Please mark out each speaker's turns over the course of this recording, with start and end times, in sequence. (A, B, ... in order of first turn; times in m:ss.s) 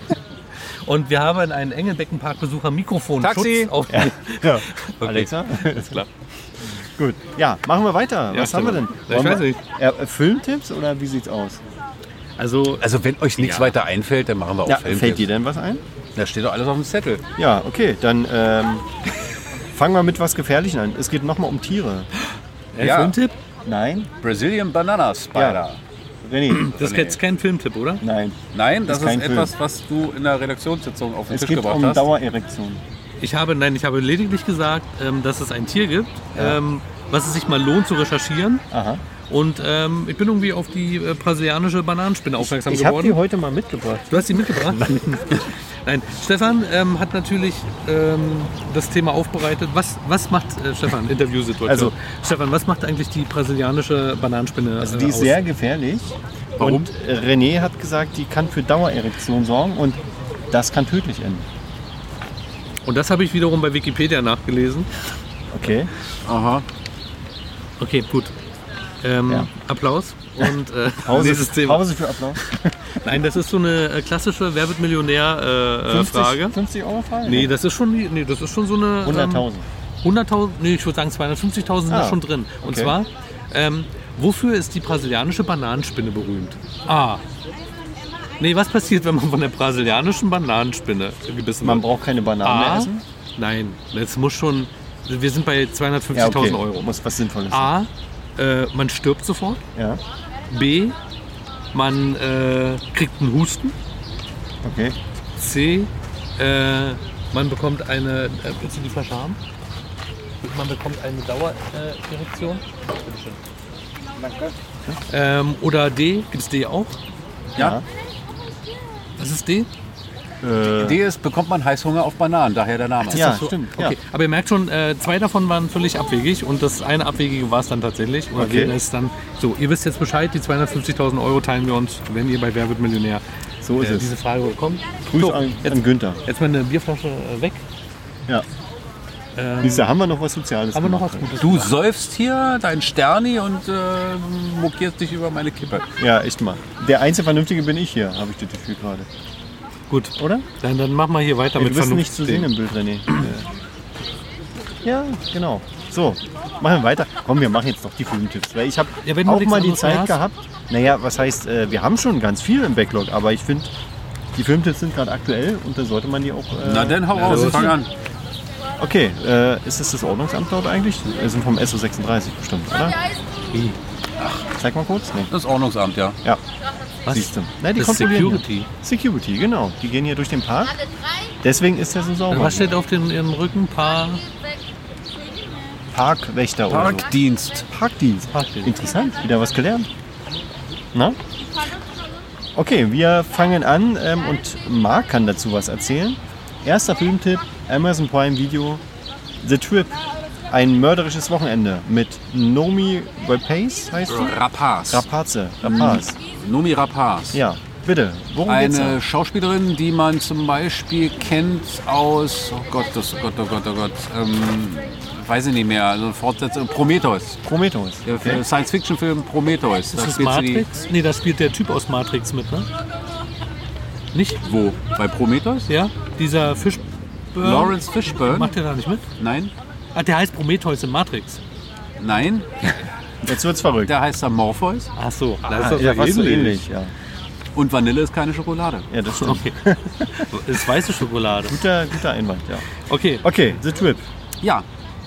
0:00.8-0:06.1 A
0:03.2-0:03.7 B
0:03.9-0:06.0 C
0:07.0-0:11.6 C
0:08.3-0:09.6 A
0:12.4-0:12.8 A
0:12.8-0:15.3 B
0:13.4-0:13.7 A
0:14.6-0:15.8 C
0:16.2-0:17.2 B
0:17.4-0:18.9 C
0:19.7-0:22.1 C
0:22.7-0:23.3 A
0:22.8-0:23.2 B
0:23.6-0:24.1 C
0:24.2-0:25.8 B
0:25.3-0:25.6 C
0:26.2-0:26.7 C
0:26.5-0:28.0 A
0:26.7-0:27.2 B
0:28.0-0:29.5 C
0:28.5-0:32.1 B
0:31.3-0:32.8 C
0:33.2-0:38.6 A
0:36.3-0:36.6 C
0:38.7-0:39.0 C
0:39.3-0:43.2 A
0:42.4-0:45.0 C
0:44.1-0:55.4 A
0:51.6-0:51.9 C
0:54.8-1:01.5 C
0:56.6-0:56.9 B
1:02.8-1:04.9 A
1:05.5-1:05.9 C
1:06.2-1:06.6 B
1:07.8-1:08.3 A
1:09.0-1:12.4 A
1:11.0-1:13.0 C
1:13.0-1:16.6 A
1:15.9-1:17.5 C
1:17.2-1:19.5 A
1:19.0-1:19.6 C
1:20.0-1:27.2 A
1:21.9-1:22.9 C
1:28.4-1:31.8 A
1:31.6-1:33.0 C
1:32.4-1:36.9 A
1:36.1-1:37.7 C
1:37.5-1:39.6 A
1:39.8-1:40.0 C
1:40.5-1:41.0 A
1:41.7-1:43.7 A
1:44.6-1:45.0 C
1:45.4-1:49.4 A
1:50.4-1:53.4 A
1:55.1-1:57.0 A
1:57.6-1:57.8 C
1:59.2-1:59.7 A
2:00.4-2:01.0 C
2:00.8-2:03.3 B
2:03.1-2:13.2 A
2:03.1-2:04.0 C
2:08.3-2:08.7 C
2:13.6-2:14.1 C
2:13.8-2:17.6 A
2:15.1-2:16.2 C
2:19.4-2:19.9 A
2:19.6-2:21.4 C
2:20.7-2:21.7 A
2:21.4-2:25.8 B
2:26.0-2:29.1 C
2:29.9-2:32.5 A
2:30.2-2:30.4 C
2:31.6-2:33.5 C
2:34.8-2:43.7 C
2:39.0-2:40.2 A
2:44.3-2:47.8 C
2:46.6-2:47.9 B
2:47.1-2:47.8 A
2:48.8-2:53.0 C
2:54.2-2:54.4 B
2:54.5-2:55.3 C
2:55.3-2:56.2 B
2:57.0-2:58.7 A
2:57.1-3:00.8 C
3:01.4-3:02.7 C
3:02.3-3:04.2 A
3:05.9-3:07.1 C
3:06.7-3:07.7 B
3:07.7-3:09.9 C
3:08.3-3:08.8 A
3:12.5-3:18.8 C
3:19.4-3:20.0 C
3:20.5-3:24.4 C
3:24.1-3:25.0 B
3:24.9-3:26.2 C
3:25.6-3:27.4 B
3:27.3-3:29.0 C
3:28.5-3:37.4 B
3:37.4-3:38.4 C
3:38.0-3:40.6 B
3:39.9-3:42.7 A
3:44.4-3:45.7 B
3:45.7-3:49.0 A
3:47.4-3:48.5 B
3:49.2-3:49.5 B
3:49.9-3:51.4 A
3:52.0-3:52.8 B
3:53.2-3:53.9 C
3:53.8-3:54.9 B
3:55.0-3:56.6 A
3:55.4-3:56.9 C
3:57.5-3:58.9 B
3:58.9-4:00.3 C
3:59.1-4:01.6 A
4:01.4-4:02.7 C
4:02.9-4:03.2 A
4:03.2-4:04.0 C